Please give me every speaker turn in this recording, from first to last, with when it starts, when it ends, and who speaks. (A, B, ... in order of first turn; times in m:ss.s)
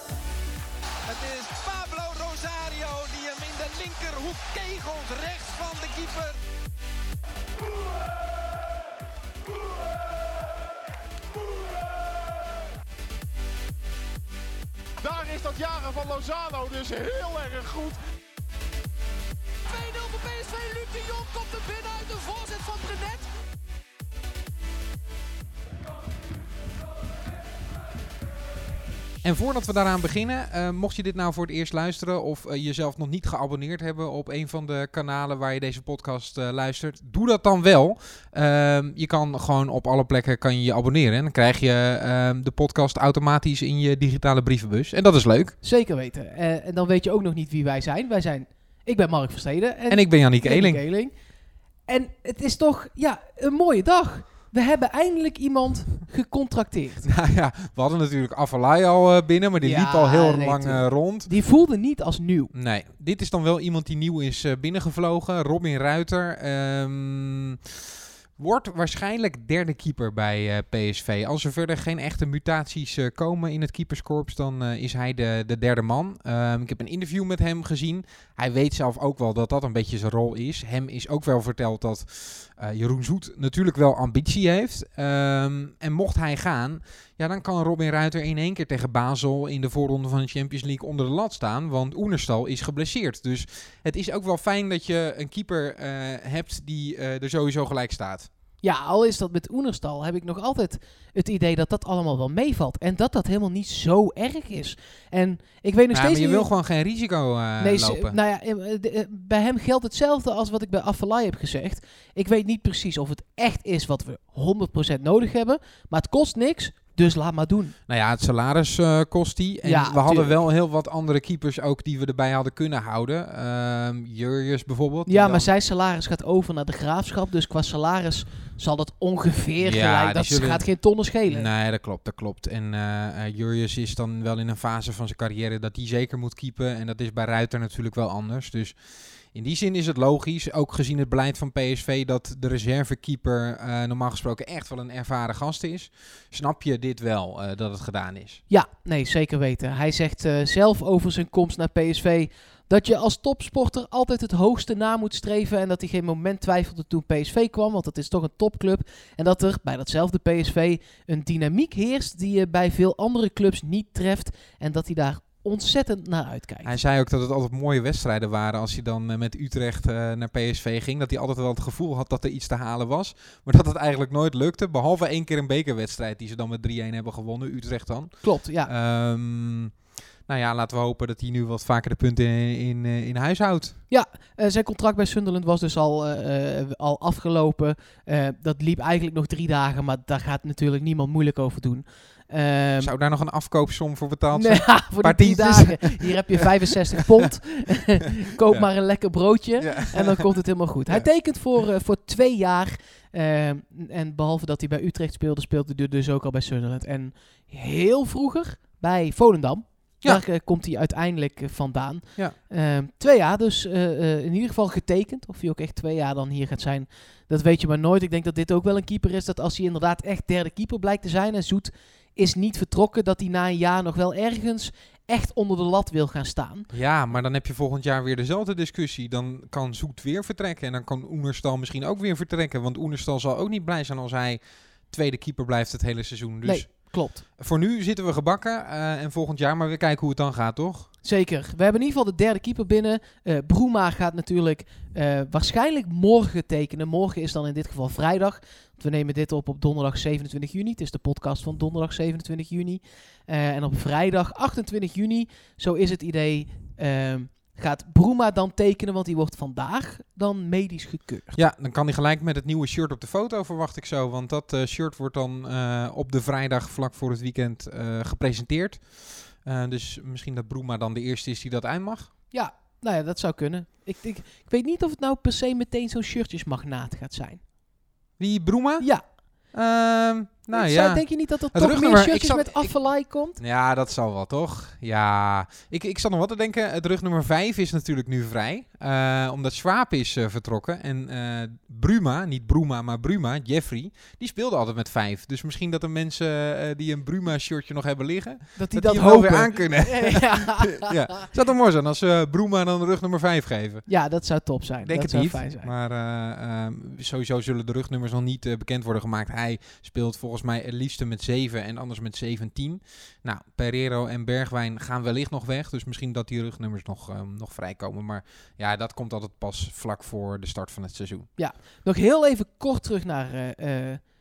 0:01.0-0:06.4 A
0:15.0-0:18.0 B
0:19.7-0:23.3 C
0:29.2-0:45.6 A
0:45.6-0:51.1 C
0:49.9-0:50.8 A
0:51.9-0:57.0 C
0:57.0-1:01.3 A
0:59.6-1:02.5 C
1:02.5-1:07.6 A
1:08.4-1:38.3 A
1:38.6-1:46.5 C
1:45.9-1:48.2 A
1:47.6-1:57.7 C
1:57.9-2:05.5 A
1:59.6-2:00.4 C
2:05.1-2:11.5 C
2:09.6-2:28.4 A
2:28.5-2:46.8 C
2:46.6-3:03.8 A
2:58.2-2:58.7 C
3:03.9-3:12.9 C
3:12.8-3:17.0 A
3:14.3-3:46.7 C
3:19.6-3:20.3 A
3:46.7-4:00.9 A
3:56.4-3:57.2 C
4:01.0-4:21.4 C
4:21.3-4:32.1 A
4:32.3-4:37.4 C
4:38.2-5:03.9 A
4:40.5-4:43.4 C
4:58.6-5:01.2 C
5:03.9-5:05.7 C
5:04.8-5:21.3 A
5:21.4-5:24.0 C